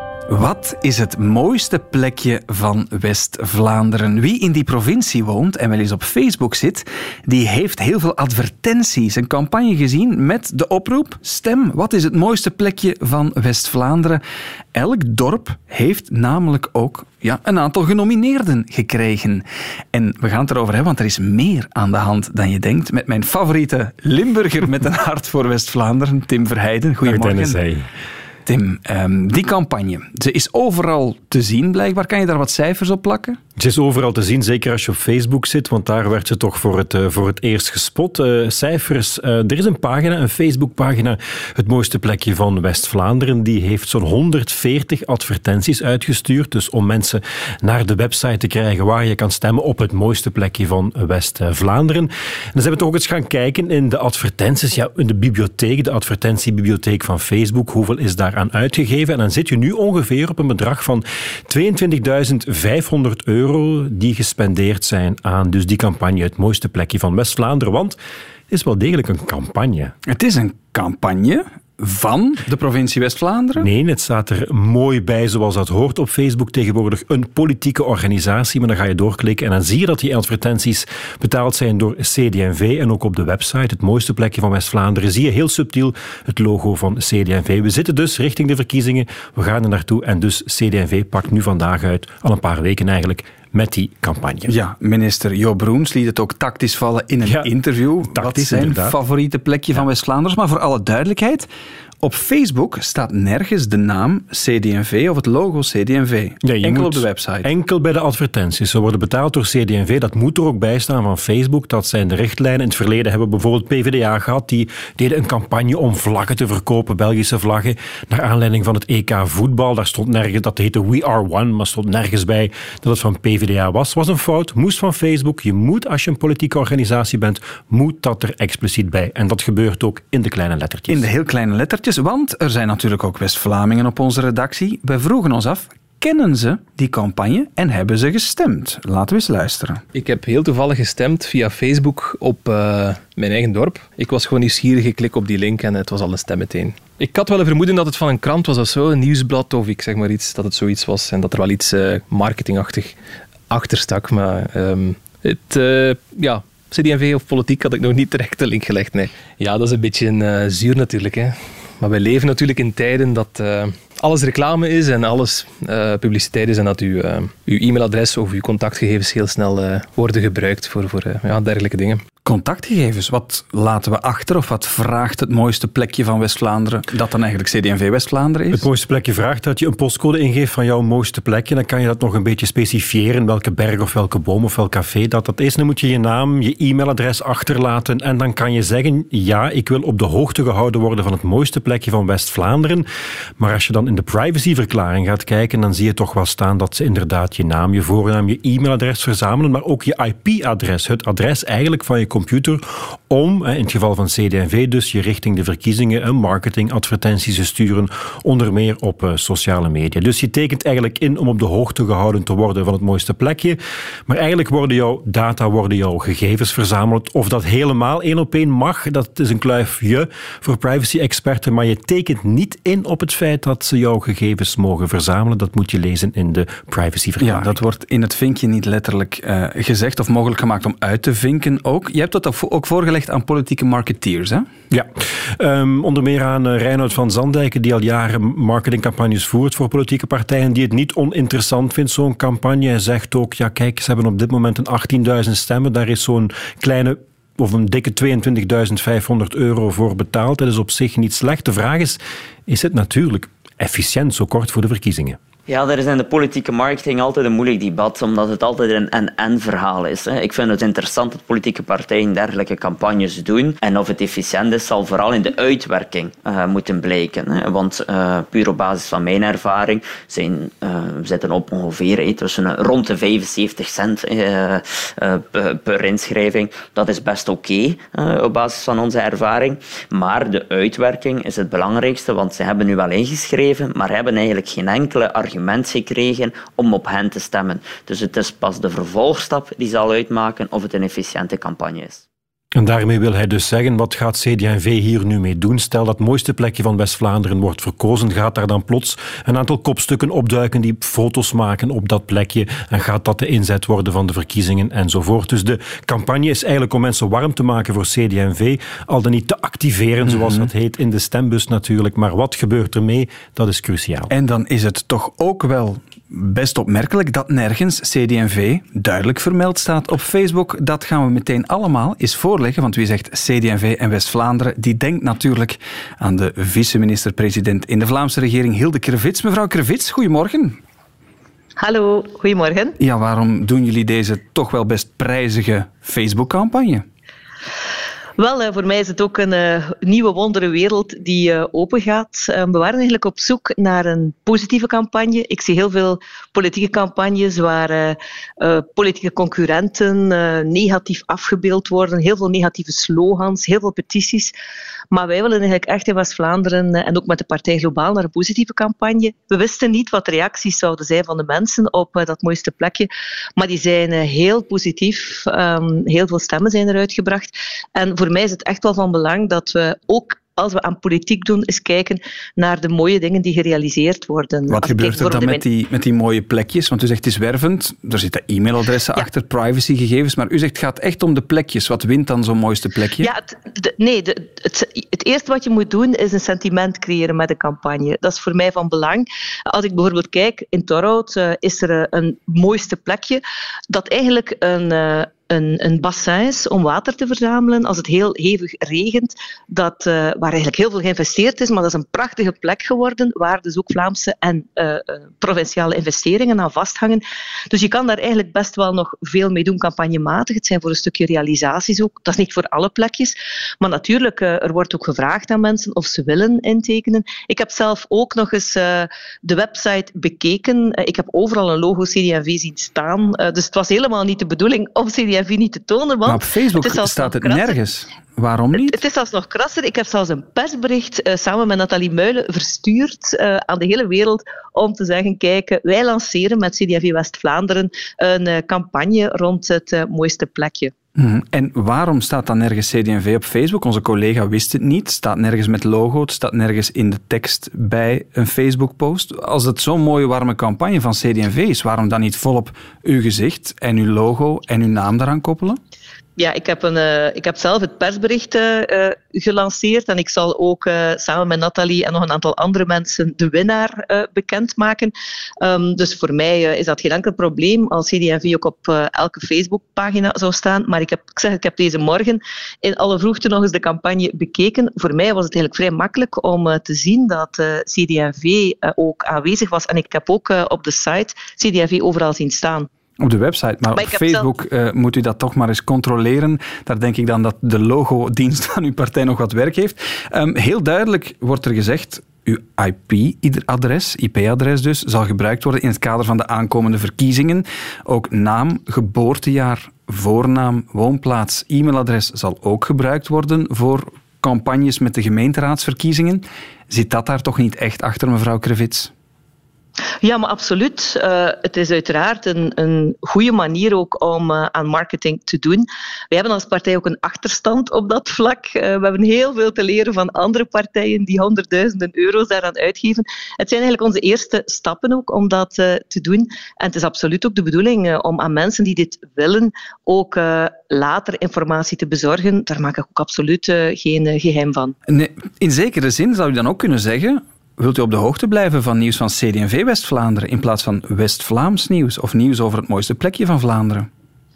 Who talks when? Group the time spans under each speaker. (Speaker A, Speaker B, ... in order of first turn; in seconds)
Speaker A: 0.3-14.2, 14.8-27.6, 28.5-33.4, 70.1-73.7, 94.5-101.5, 102.0-107.5, 130.9-139.8, 172.2-178.7, 227.2-234.5, 310.1-310.5, 314.1-330.6, 332.8-336.9, 374.5-383.1, 426.1-428.8, 441.0-455.6, 483.0-508.9, 534.9-543.9
Speaker B: 27.0-27.9, 33.6-68.0, 68.5-69.9, 73.6-94.5, 97.2-97.5, 98.0-99.0, 106.4-131.1, 178.5-192.9, 193.4-227.6, 234.7-255.2, 292.6-314.1
Speaker C: 139.9-153.0, 153.5-172.0
Speaker D: 255.5-292.0
Speaker E: 331.6-332.8, 338.2-354.3, 354.9-375.4, 383.0-427.6, 428.6-440.7, 456.2-482.7, 483.7-484.3, 510.0-534.8